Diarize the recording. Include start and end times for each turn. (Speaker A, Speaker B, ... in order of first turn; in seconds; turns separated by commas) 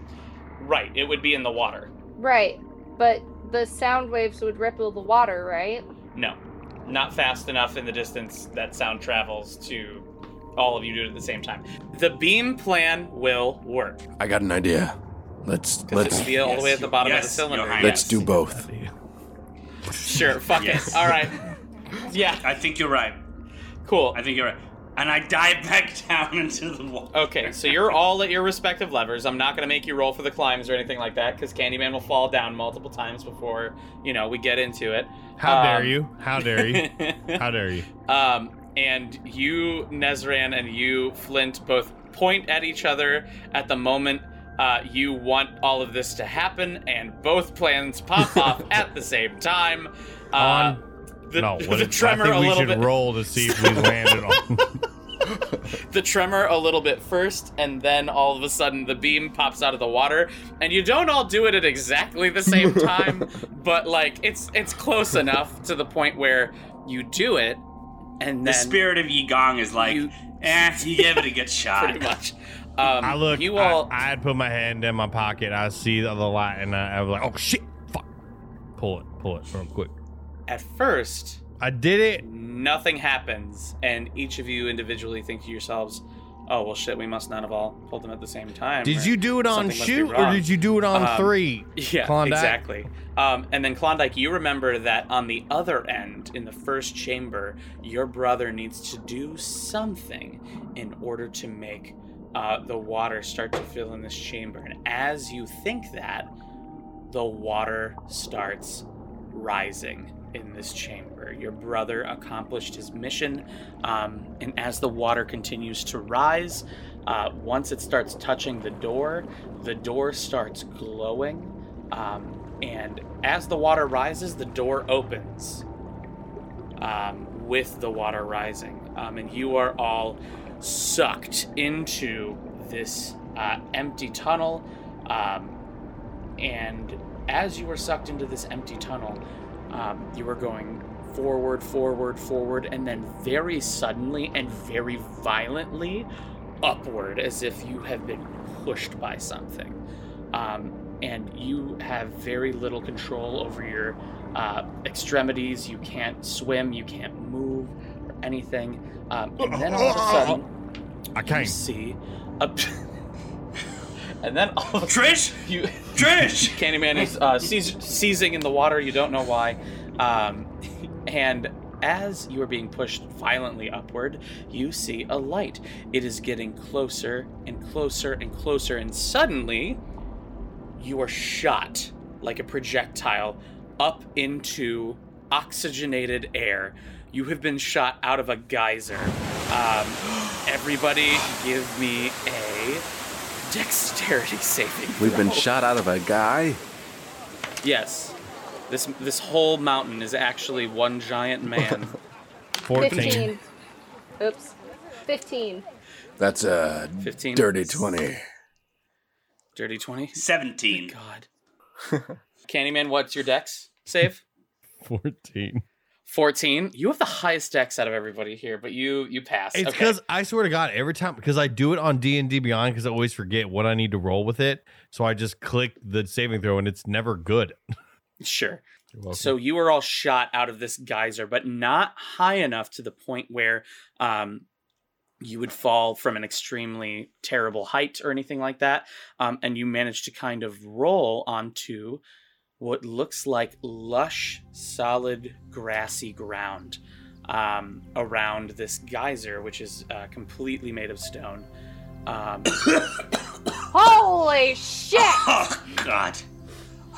Speaker A: 0.6-1.9, Speaker B: 2.2-5.9, Speaker A: 6.1-14.0, Speaker C: 14.2-16.4, Speaker A: 15.9-18.2, Speaker D: 16.4-18.2, Speaker C: 17.8-18.7, Speaker E: 18.5-18.9, Speaker A: 20.0-21.4, Speaker D: 20.5-21.1, Speaker A: 22.0-22.5, Speaker D: 22.3-23.2, Speaker A: 23.8-24.2, Speaker D: 24.1-27.9, Speaker A: 27.1-37.4, Speaker E: 35.4-37.9, Speaker A: 38.0-54.0, Speaker E: 50.4-54.8, Speaker A: 55.7-67.6, Speaker A: 68.2-68.8, Speaker D: 68.4-72.1, Speaker A: 69.8-73.9, Speaker E: 72.8-78.1, Speaker E: 78.8-79.9, Speaker A: 80.5-81.4, Speaker E: 81.6-82.2, Speaker A: 82.2-106.3, Speaker E: 88.8-92.6, Speaker A: 107.1-125.6, Speaker A: 126.8-135.6, Speaker A: 136.4-146.1, Speaker A: 146.6-149.8, Speaker A: 150.3-160.5, Speaker E: 159.4-160.4, Speaker E: 161.1-161.6, Speaker A: 161.2-162.8, Speaker A: 164.2-170.5, Speaker D: 164.8-166.7, Speaker A: 171.1-179.8, Speaker A: 180.8-192.8, Speaker A: 193.4-195.5, Speaker C: 195.0-196.6, Speaker A: 197.6-198.2, Speaker A: 198.7-202.0, Speaker E: 202.6-203.3, Speaker B: 202.7-203.4, Speaker B: 204.2-205.6, Speaker C: 206.2-208.2, Speaker A: 207.0-208.0, Speaker A: 209.5-211.3, Speaker D: 210.1-210.9, Speaker A: 212.4-214.2, Speaker E: 214.8-215.6, Speaker A: 216.1-220.0, Speaker E: 219.5-227.6, Speaker A: 228.2-234.5, Speaker E: 228.9-229.3, Speaker A: 235.2-242.0, Speaker A: 242.6-251.5, Speaker A: 252.1-252.5, Speaker D: 252.6-252.9, Speaker B: 253.7-255.3, Speaker D: 254.9-256.2